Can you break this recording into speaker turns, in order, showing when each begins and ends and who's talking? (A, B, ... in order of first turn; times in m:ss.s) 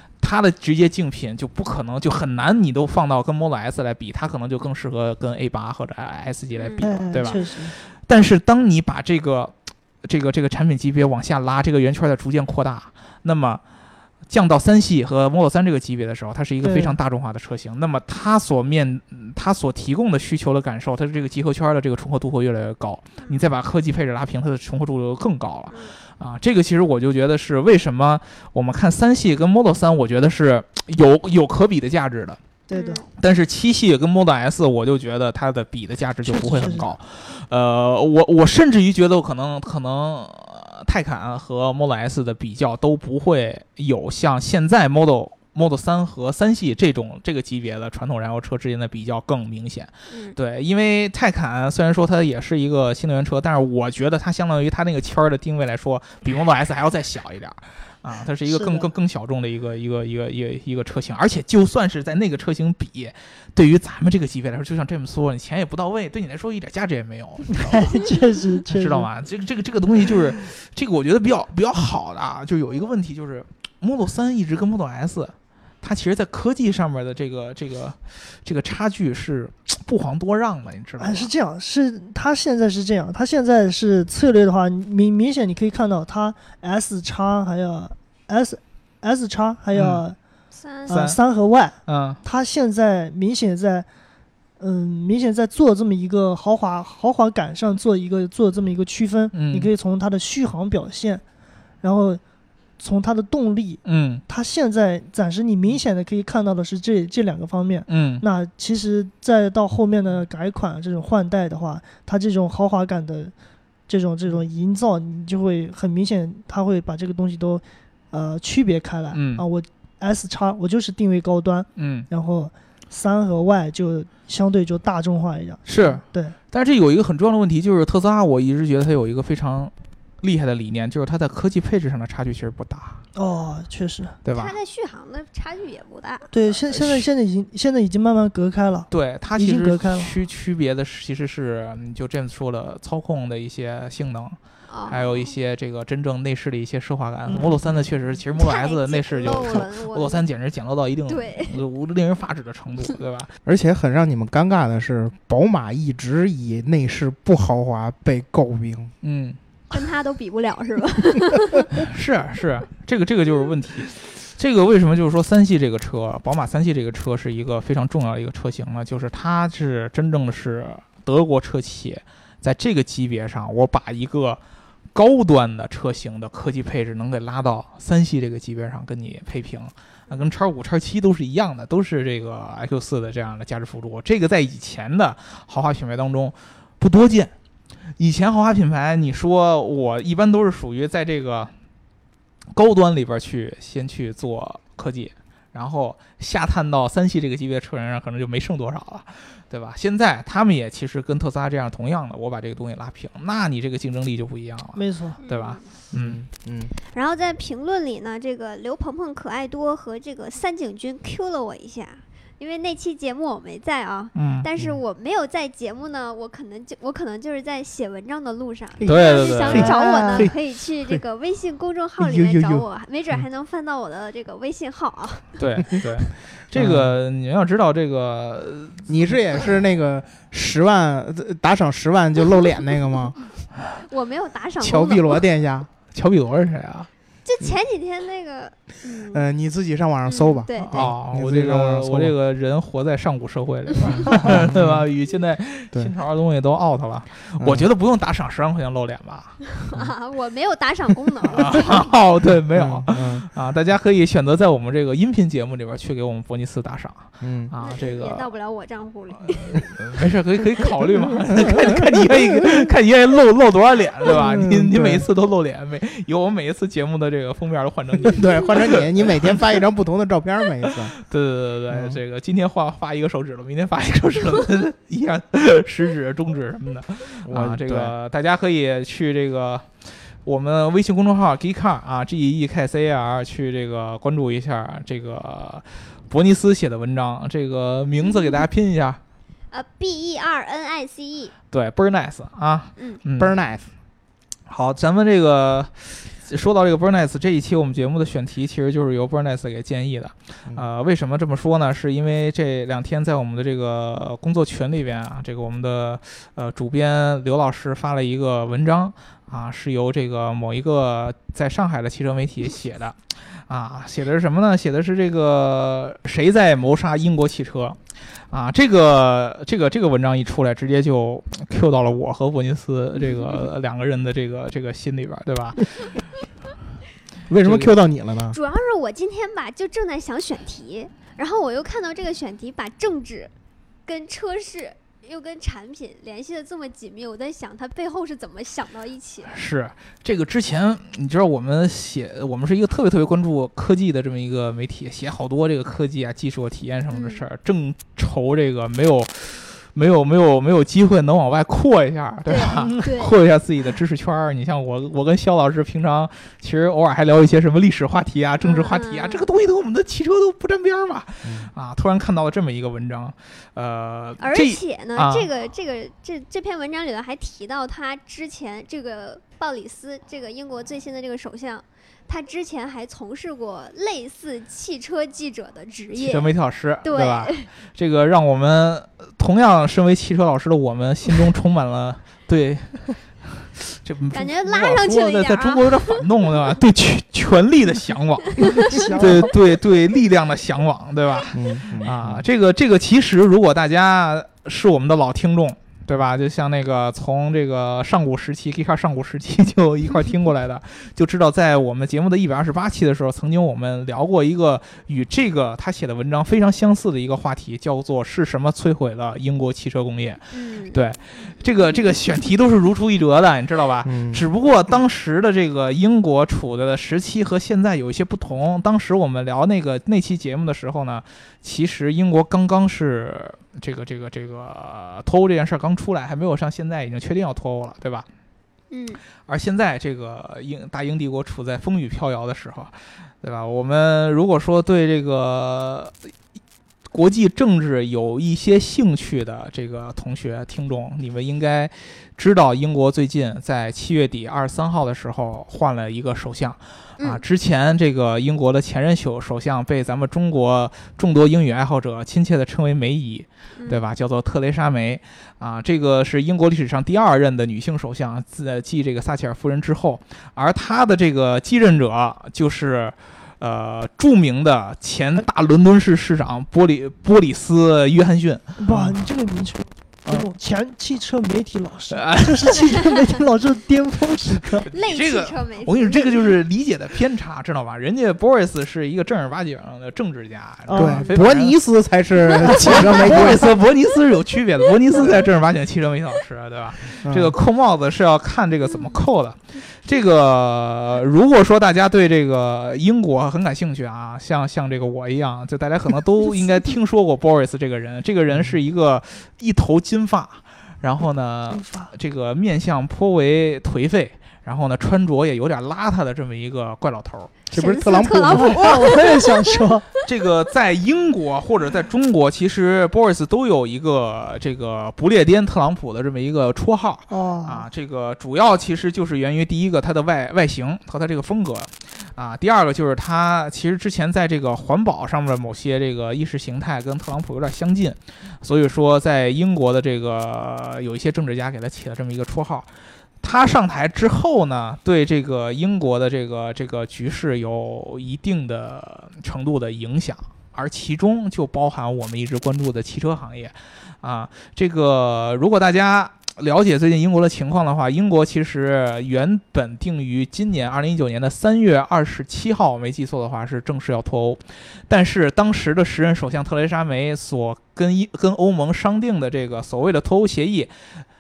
0:00.2-0:13.6 A
0:06.6-0:07.5 B
0:06.8-0:07.7 C
0:14.3-0:32.4 A
0:16.6-0:17.0 C
0:25.7-0:26.0 B
0:32.7-0:33.0 C
0:32.7-0:33.1 B
0:33.2-1:08.0 A
0:36.2-0:36.9 C
0:50.1-0:50.4 B
0:58.4-0:58.9 C
1:07.5-1:09.1 C
1:08.6-1:21.3 A
1:21.0-1:30.2 C
1:29.7-1:30.0 A
1:30.5-1:31.0 B
1:30.9-1:33.9 C
1:30.9-1:31.2 A
1:31.9-1:32.2 A
1:34.6-1:41.2 C
1:39.3-1:39.7 A
1:41.8-1:42.2 C
1:42.8-1:53.3 C
1:43.8-1:44.2 A
1:47.9-1:48.2 A
1:53.9-2:06.4 C
1:59.1-1:59.4 A
2:01.8-2:02.1 A
2:05.6-2:13.0 A
2:13.1-2:14.2 C
2:14.2-2:14.6 A
2:14.3-2:16.3 B
2:16.3-2:20.1 C
2:16.7-2:17.0 A
2:18.9-2:33.3 A
2:24.7-2:25.3 B
2:27.3-2:27.8 C
2:28.4-2:30.2 B
2:31.1-2:31.6 B
2:33.4-2:38.9 D
2:39.0-2:39.4 A
2:39.7-2:41.7 B
2:41.7-2:54.4 A
2:54.9-3:07.3 A
3:08.0-3:11.5 A
3:12.5-3:26.2 A
3:24.8-3:25.2 C
3:25.2-3:25.7 B
3:25.9-3:26.7 D
3:26.9-3:45.4 B
3:34.1-3:34.5 A
3:38.8-3:40.3 D
3:38.8-3:39.8 A
3:39.7-3:40.3 C
3:42.0-3:42.6 D
3:45.4-3:48.9 A
3:46.6-3:46.9 D
3:48.9-3:53.2 D
3:53.8-3:55.2 B
3:54.6-3:55.7 D
3:55.9-3:56.9 A
3:57.2-3:59.2 B
3:59.1-4:02.1 D
4:00.1-4:00.9 B
4:00.5-4:09.4 A
4:03.8-4:04.2 B
4:04.1-4:04.9 D
4:07.4-4:07.7 D
4:09.6-4:11.8 B
4:11.3-4:18.3 A
4:12.5-4:13.3 D
4:17.2-4:17.5 D
4:17.6-4:19.8 B
4:19.2-4:28.9 A
4:21.5-4:21.8 D
4:24.1-4:25.1 D
4:28.0-4:30.9 D
4:30.7-4:39.7 A
4:31.7-4:32.0 D
4:37.3-4:37.9 D
4:40.2-4:49.0 A
4:48.0-4:48.4 B
4:49.5-4:51.3 B
4:51.5-4:53.4 A
4:53.2-4:53.7 D
4:54.5-5:13.0 A
5:13.5-5:17.8 A
5:18.3-5:25.9 A
5:27.3-5:28.4 D
5:27.4-5:27.8 A
5:28.3-5:33.3 B
5:33.9-5:39.3 B
5:39.3-6:05.3 A
5:46.9-5:47.2 B
5:52.3-5:53.1 B
5:58.4-5:59.3 B
6:01.2-6:01.5 D
6:04.2-6:16.3 B
6:15.9-7:08.1 A
6:16.8-6:17.5 B
6:24.1-6:26.0 B
6:28.4-6:29.3 B
6:28.7-6:29.3 C
6:31.3-6:32.2 D
6:50.3-6:50.8 B
6:53.8-6:54.2 D
7:08.7-7:09.0 B
7:09.3-7:16.0 A
7:16.9-7:48.9 A
7:27.0-7:27.2 B
7:33.6-7:33.8 B
7:48.6-7:54.7 C
7:51.9-7:52.6 A
7:54.3-8:01.6 A
7:54.7-7:56.3 B
8:00.7-8:01.1 C
8:00.7-8:03.5 D
8:02.4-8:27.4 A
8:07.0-8:07.4 D
8:08.7-8:09.0 B
8:21.5-8:21.9 C
8:27.5-8:29.0 D
8:27.5-8:29.7 B
8:28.2-8:29.9 C
8:30.0-8:52.7 A
8:37.1-8:37.6 C
8:53.2-9:20.7 A